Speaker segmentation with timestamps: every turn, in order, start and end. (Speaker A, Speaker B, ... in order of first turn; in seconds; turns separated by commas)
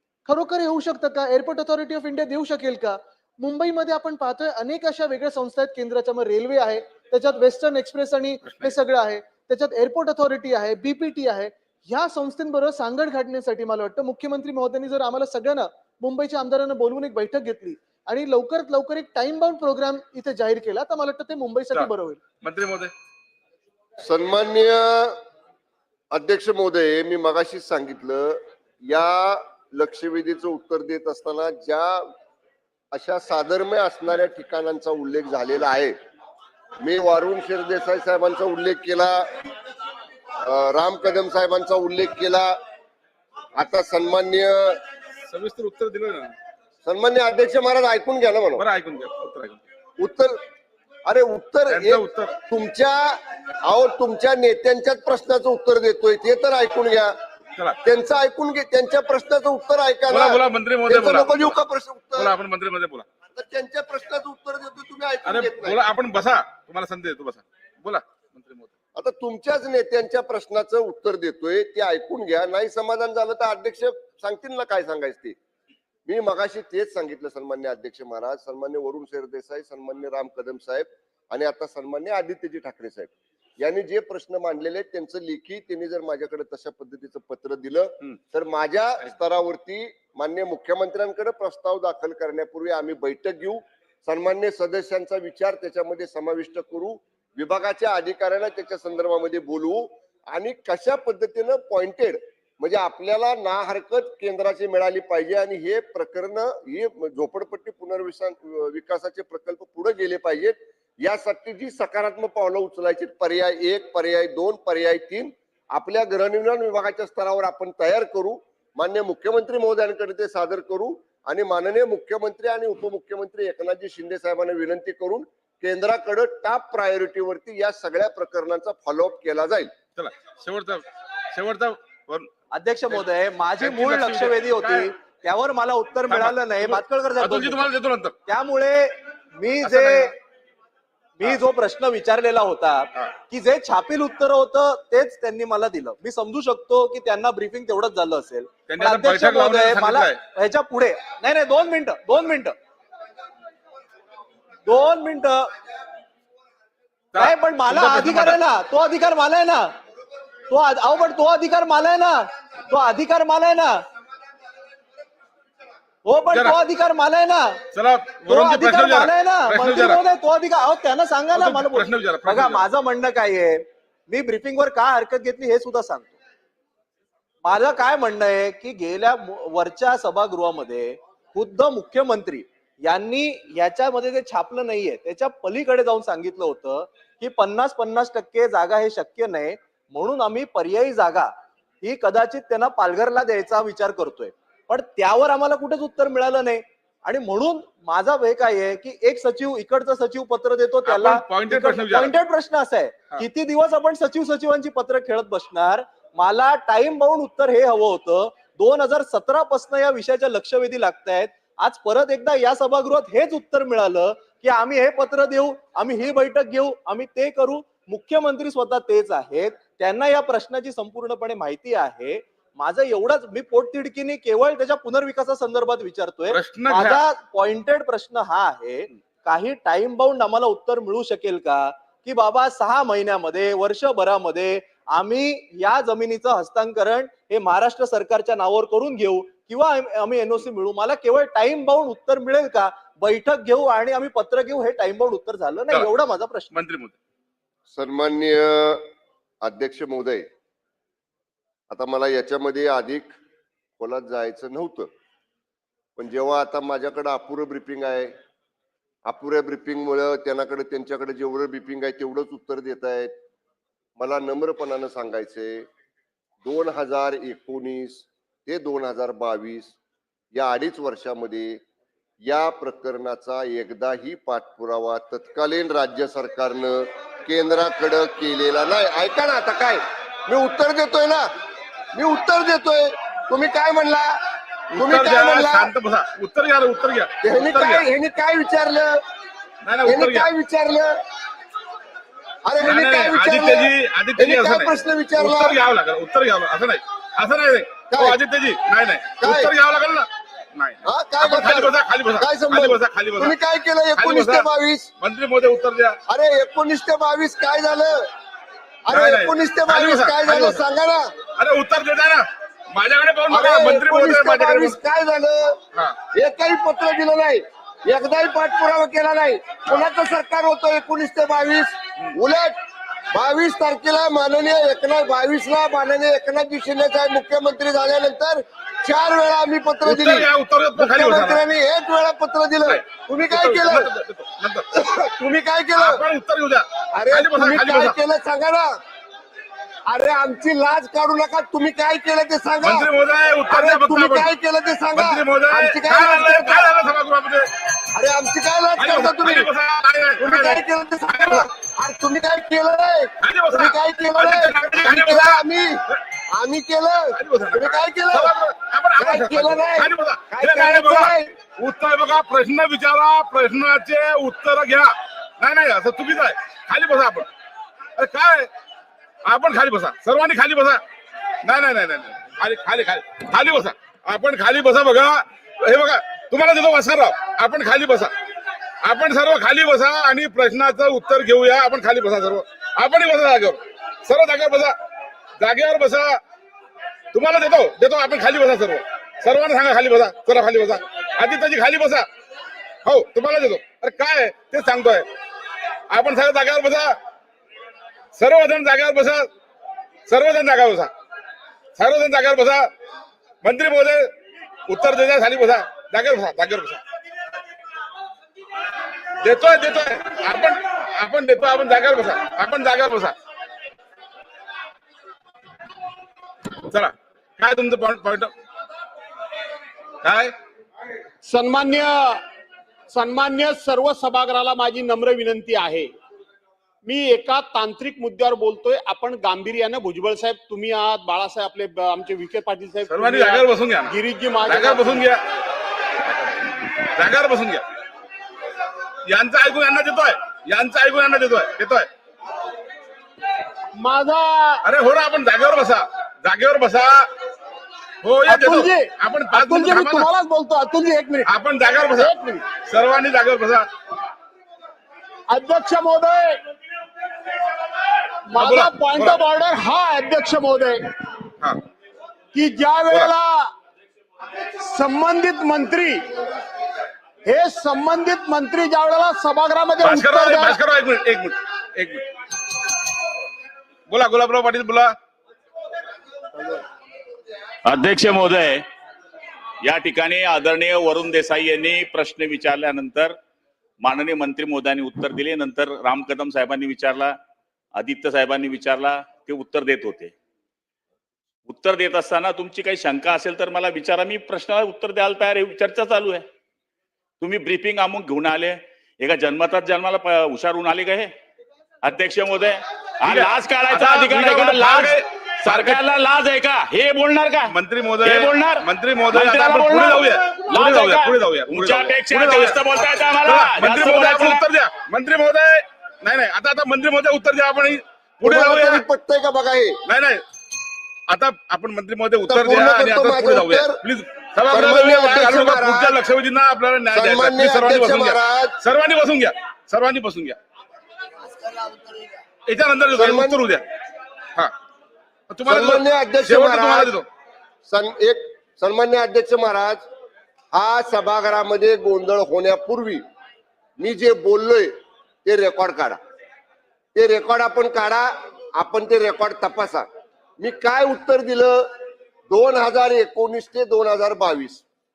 Speaker A: 0.3-22.2, Speaker B: 22.4-22.9, Speaker C: 24.0-25.2, Speaker C: 26.1-32.0, Speaker C: 32.9-36.0, Speaker C: 36.8-39.3, Speaker C: 40.4-42.6, Speaker C: 43.6-44.8, Speaker B: 45.3-46.3, Speaker C: 46.9-48.6, Speaker B: 48.6-49.6, Speaker C: 50.0-50.4, Speaker C: 51.1-57.1, Speaker B: 51.7-52.4, Speaker C: 57.8-62.3, Speaker B: 60.1-61.5, Speaker B: 62.2-63.1, Speaker C: 63.3-65.8, Speaker B: 65.3-68.7, Speaker C: 69.0-75.4, Speaker C: 76.1-129.7, Speaker B: 130.0-132.3, Speaker D: 132.5-137.7, Speaker B: 133.6-134.9, Speaker B: 136.1-138.2, Speaker D: 138.3-140.2, Speaker B: 139.6-140.1, Speaker D: 141.2-152.6, Speaker B: 148.7-150.2, Speaker D: 154.7-155.5, Speaker B: 157.1-158.4, Speaker D: 157.2-159.7, Speaker D: 160.5-163.8, Speaker D: 166.1-167.6, Speaker B: 166.3-166.6, Speaker B: 167.7-170.0, Speaker D: 168.2-176.2, Speaker B: 171.3-172.7, Speaker D: 177.4-246.5, Speaker B: 200.8-202.1, Speaker B: 226.3-227.0, Speaker B: 246.5-247.0, Speaker C: 247.7-248.8, Speaker C: 249.4-250.3, Speaker C: 251.7-253.1, Speaker C: 253.8-254.9, Speaker C: 256.0-258.1, Speaker C: 259.1-263.1, Speaker C: 264.0-265.7, Speaker C: 266.4-269.8, Speaker C: 270.3-271.6, Speaker C: 272.2-281.3, Speaker C: 281.9-284.2, Speaker C: 284.8-285.7, Speaker B: 284.8-287.9, Speaker C: 287.2-289.0, Speaker B: 289.6-290.3, Speaker C: 289.8-290.9, Speaker C: 292.5-295.6, Speaker B: 292.6-303.3, Speaker C: 297.9-298.2, Speaker C: 299.2-299.5, Speaker C: 300.9-304.9, Speaker B: 304.0-304.5, Speaker B: 305.0-306.0, Speaker C: 306.1-308.1, Speaker C: 308.9-311.1, Speaker B: 308.9-310.6, Speaker B: 311.4-314.8, Speaker C: 313.3-315.6, Speaker C: 316.1-322.6, Speaker C: 323.1-333.9, Speaker B: 329.9-331.4, Speaker B: 332.6-334.7, Speaker C: 334.7-336.0, Speaker B: 335.8-338.0, Speaker C: 336.9-338.7, Speaker C: 339.9-342.9, Speaker B: 342.6-344.3, Speaker C: 343.5-346.7, Speaker B: 344.9-347.5, Speaker C: 347.9-349.5, Speaker B: 348.8-350.6, Speaker C: 350.2-358.4, Speaker B: 351.1-351.4, Speaker B: 353.2-355.4, Speaker B: 357.1-367.3, Speaker C: 359.0-361.3, Speaker B: 368.0-368.5, Speaker B: 369.2-370.8, Speaker B: 371.4-378.1, Speaker B: 378.8-384.7, Speaker B: 385.4-386.2, Speaker B: 387.1-392.1, Speaker B: 392.9-395.1, Speaker B: 395.9-396.9, Speaker B: 398.2-399.3, Speaker B: 400.1-400.9, Speaker B: 401.8-402.7, Speaker B: 403.4-404.1, Speaker B: 404.7-406.8, Speaker B: 409.2-413.1, Speaker B: 416.7-418.3, Speaker B: 420.0-420.3, Speaker E: 421.3-422.2, Speaker E: 422.9-425.9, Speaker E: 426.9-435.0, Speaker B: 432.9-435.3, Speaker B: 436.8-437.6, Speaker B: 439.1-441.9, Speaker E: 443.8-444.6, Speaker B: 444.6-447.1, Speaker B: 448.0-450.1, Speaker E: 448.3-448.9, Speaker E: 449.4-451.3, Speaker B: 451.3-453.7, Speaker E: 452.0-452.4, Speaker E: 455.3-456.3, Speaker E: 458.3-460.8, Speaker B: 458.4-459.2, Speaker E: 462.3-463.3, Speaker E: 464.7-465.9, Speaker E: 467.3-470.6, Speaker B: 469.8-472.1, Speaker B: 473.9-474.9, Speaker F: 477.7-478.6, Speaker F: 479.6-483.1, Speaker F: 483.8-487.1, Speaker F: 487.8-490.1, Speaker F: 491.5-496.2, Speaker F: 497.2-501.1, Speaker F: 501.8-514.4, Speaker B: 503.1-505.8, Speaker B: 507.5-512.6, Speaker B: 513.2-518.8, Speaker C: 518.2-519.8, Speaker B: 519.9-520.2, Speaker B: 521.1-530.4, Speaker C: 522.3-523.8, Speaker C: 524.5-526.0, Speaker C: 526.9-528.5, Speaker C: 531.4-531.9, Speaker B: 532.5-533.6, Speaker C: 533.0-533.4, Speaker B: 535.3-537.0, Speaker C: 535.5-537.0, Speaker C: 537.7-539.8, Speaker C: 540.5-543.0, Speaker C: 543.8-544.7, Speaker C: 545.2-546.0, Speaker C: 547.0-549.9, Speaker C: 550.4-551.7, Speaker C: 552.3-554.6